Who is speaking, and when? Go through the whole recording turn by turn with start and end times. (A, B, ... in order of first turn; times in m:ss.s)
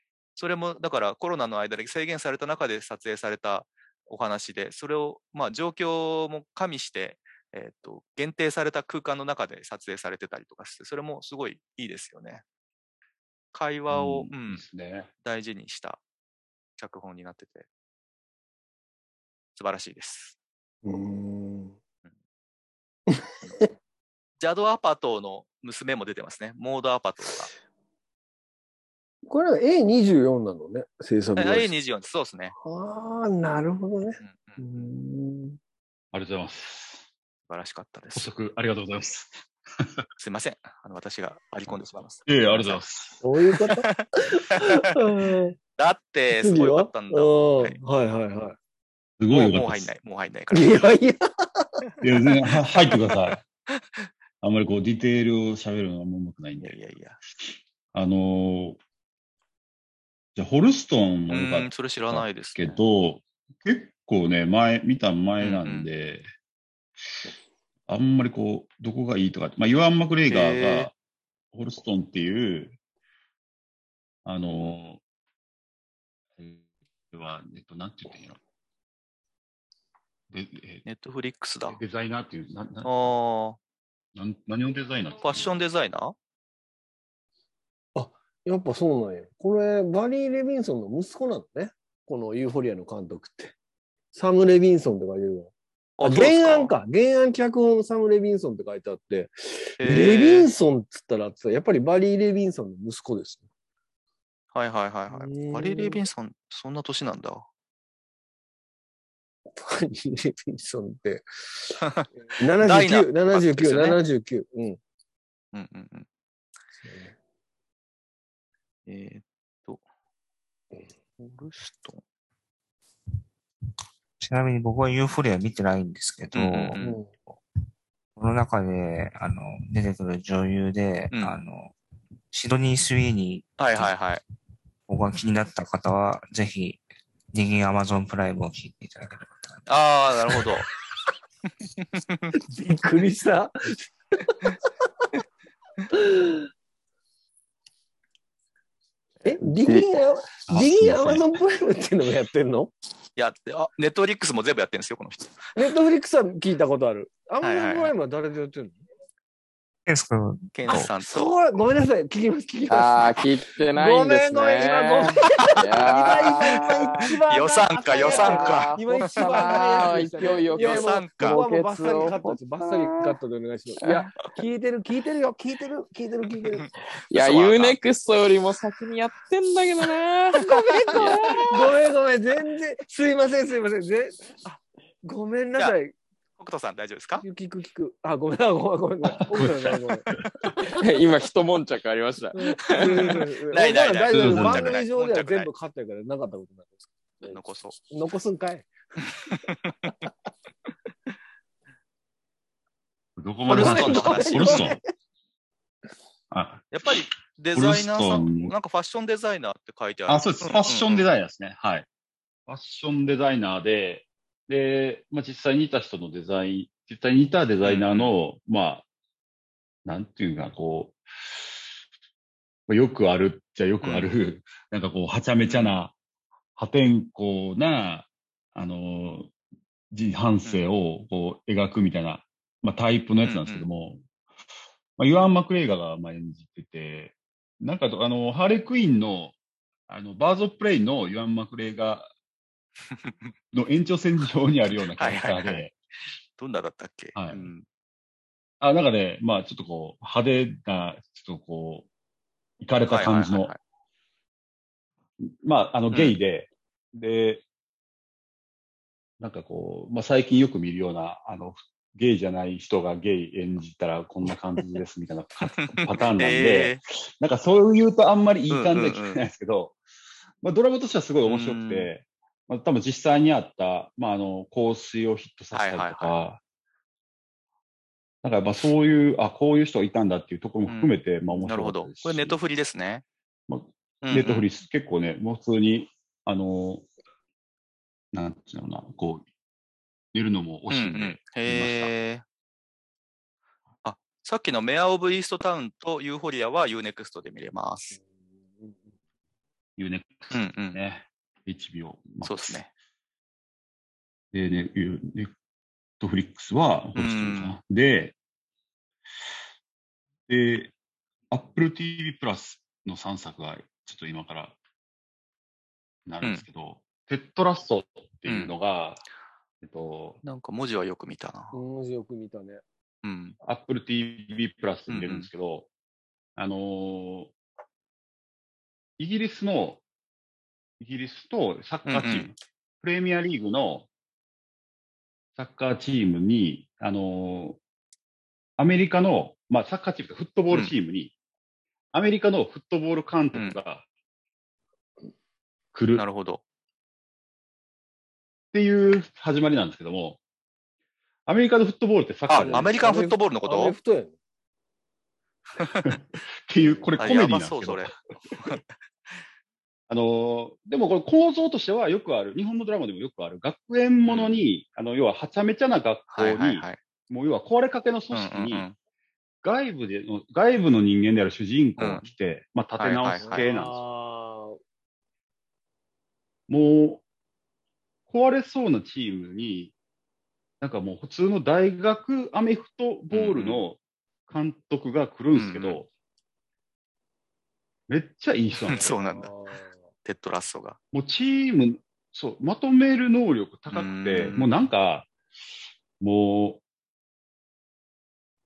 0:00.4-0:12.4 A
0:13.5-0:14.6 A
0:13.9-0:15.1 B
0:15.2-0:16.0 A
0:16.8-0:17.7 A
0:19.6-0:20.4 A
0:20.8-0:21.8 C
0:23.1-0:23.7 C
0:24.4-0:27.5 A
0:29.3-0:31.7 C
0:31.4-0:32.5 A
0:32.6-0:35.6 C
0:34.2-0:34.9 A
0:36.1-0:37.0 B
0:37.5-0:38.3 A
0:38.1-0:40.0 B
0:40.2-0:42.8 A
0:42.3-0:43.2 B
0:43.2-0:45.6 C
0:43.7-0:44.9 A
0:45.8-0:47.8 A
0:46.3-0:48.6 C
0:49.2-0:49.9 B
0:49.3-0:50.9 A
0:50.5-0:51.8 C
0:52.0-0:53.4 B
0:54.4-0:56.8 B
0:56.6-0:57.2 A
0:57.9-0:58.8 B
1:00.4-1:06.3 B
1:01.3-1:02.8 A
1:05.4-1:05.9 A
1:07.9-1:10.9 B
1:10.3-1:10.9 A
1:11.5-1:12.8 B
1:14.2-1:15.0 B
1:16.4-1:18.4 B
1:20.3-1:20.8 B
1:20.8-1:21.8 A
1:21.7-1:23.1 B
1:22.8-1:23.6 A
1:24.1-1:25.5 B
1:25.2-1:26.1 A
1:27.9-1:33.5 C
1:34.1-1:43.4 C
1:36.0-1:36.8 A
1:39.8-1:40.5 A
1:44.5-1:47.4 A
1:45.1-1:46.0 C
1:49.6-1:54.8 C
1:51.8-1:52.1 A
1:52.6-1:54.0 A
1:55.5-1:56.1 A
1:56.8-1:57.1 C
1:58.9-1:59.8 A
2:01.2-2:02.0 A
2:04.2-2:07.4 D
2:06.3-2:07.0 A
2:06.8-2:07.1 C
2:08.2-2:11.8 D
2:12.3-2:14.0 D
2:13.6-2:14.2 A
2:14.9-2:16.8 D
2:17.3-2:19.6 D
2:19.7-2:20.7 A
2:20.3-2:20.7 D
2:21.8-2:22.4 A
2:22.4-2:25.1 C
2:25.9-2:26.5 C
2:29.2-2:32.7 C
2:30.5-2:31.2 B
2:33.2-2:35.5 A
2:35.6-2:38.8 C
2:37.4-2:37.9 A
2:39.9-2:40.9 D
2:40.5-2:41.3 A
2:40.7-2:43.2 C
2:42.7-2:47.2 E
2:43.7-2:56.7 C
2:45.4-2:45.8 A
2:47.3-2:49.8 A
2:47.9-2:53.2 E
2:50.5-2:51.4 A
2:53.8-2:54.1 E
2:56.6-2:57.8 A
2:57.1-3:01.6 E
3:00.4-3:05.9 C
3:06.4-3:07.2 A
3:07.2-3:10.1 C
3:09.3-3:10.5 B
3:10.7-3:13.2 E
3:12.4-3:18.7 C
3:13.5-3:15.5 A
3:14.1-3:14.8 B
3:17.2-3:17.8 A
3:19.3-3:19.7 A
3:23.2-3:24.8 B
3:23.5-3:24.7 A
3:23.5-3:24.8 C
3:26.3-3:28.5 B
3:26.7-3:31.1 A
3:30.1-3:31.9 B
3:32.5-3:38.8 B
3:37.6-3:38.1 A
3:39.8-3:41.4 B
3:42.7-3:45.9 B
3:43.8-3:44.1 A
3:45.4-3:45.8 A
3:46.6-3:49.3 B
3:49.9-3:54.0 B
3:53.2-3:53.6 A
3:55.0-3:59.4 B
3:59.9-4:02.1 B
4:02.9-4:03.3 A
4:03.5-4:05.7 B
4:05.0-4:05.6 A
4:06.4-4:07.6 A
4:07.1-4:07.5 B
4:08.6-4:11.9 B
4:12.6-4:13.5 B
4:12.9-4:13.6 A
4:15.2-4:17.4 B
4:15.9-4:16.2 A
4:19.2-4:29.8 B
4:25.6-4:26.8 A
4:28.5-4:29.2 A
4:30.4-4:36.4 B
4:31.2-4:31.9 A
4:35.5-4:36.1 A
4:38.2-4:42.4 B
4:40.7-4:43.0 A
4:43.5-4:46.9 B
4:44.0-4:44.5 A
4:48.1-4:49.3 B
4:50.1-4:51.9 B
4:50.7-4:52.2 A
4:53.8-4:58.0 A
4:59.8-5:02.6 B
5:00.3-5:00.8 A
5:02.2-5:02.7 A
5:04.3-5:05.3 B
5:06.0-5:08.1 B
5:07.0-5:07.6 A
5:10.3-5:10.7 B
5:11.3-5:14.6 B
5:16.0-5:19.0 B
5:18.3-5:18.5 A
5:19.6-5:20.2 B
5:20.2-5:21.5 A
5:21.5-5:22.6 C
5:23.0-5:23.4 A
5:23.4-5:25.7 B
5:24.9-5:25.3 A
5:26.4-5:27.3 B
5:29.0-5:29.8 B
5:30.8-5:33.9 B
5:31.9-5:32.3 A
5:35.4-5:37.6 B
5:38.6-5:41.1 B
5:41.9-5:43.8 B
5:45.7-5:46.0 B
5:46.0-5:46.4 A
5:48.5-5:50.2 B
5:51.3-5:52.7 B
5:52.3-5:53.8 A
5:52.3-5:54.1 C
5:55.6-5:55.8 A
5:55.8-5:58.0 B
5:56.6-5:57.0 C
5:57.0-5:59.1 A
5:59.9-6:08.6 B
6:04.1-6:04.4 A
6:06.1-6:06.8 A
6:08.1-6:08.8 A
6:09.4-6:13.8 B
6:11.8-6:12.0 A
6:12.8-6:13.4 A
6:13.2-6:14.6 C
6:16.5-6:17.0 B
6:18.1-6:19.7 B
6:20.6-6:25.9 B
6:23.1-6:23.6 A
6:25.3-6:25.8 A
6:27.9-6:28.9 B
6:28.7-6:29.8 C
6:28.7-6:29.3 A
6:30.0-6:30.8 A
6:30.9-6:35.1 B
6:33.7-6:34.5 A
6:36.0-6:36.6 B